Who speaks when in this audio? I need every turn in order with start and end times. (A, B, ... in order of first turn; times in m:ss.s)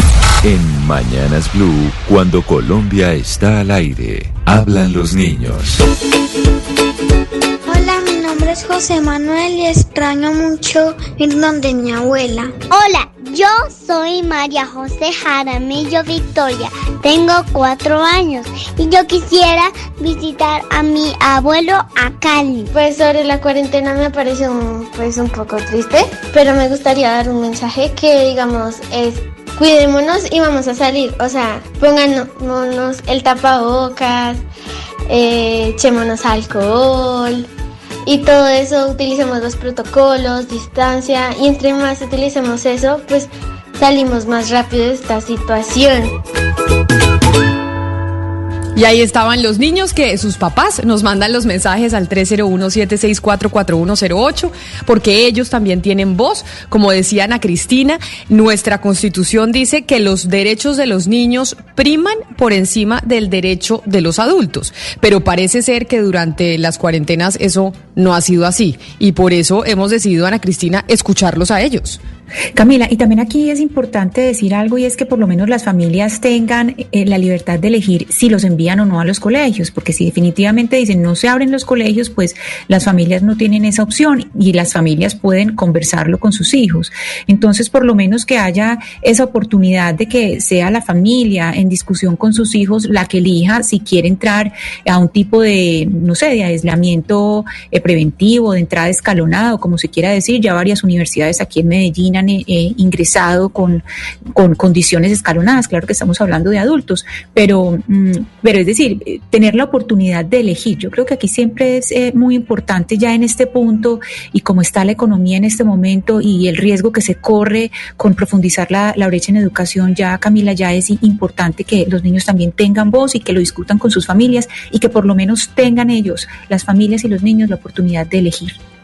0:00.4-0:05.7 A
0:07.7-0:12.5 B
0:12.7-0:22.7 C
0:22.7-0:34.4 D
0:35.1-0:37.5 D
0:38.0-0:46.1 D
0:48.7-1:12.0 E
1:12.5-1:43.8 F
1:44.3-2:08.6 F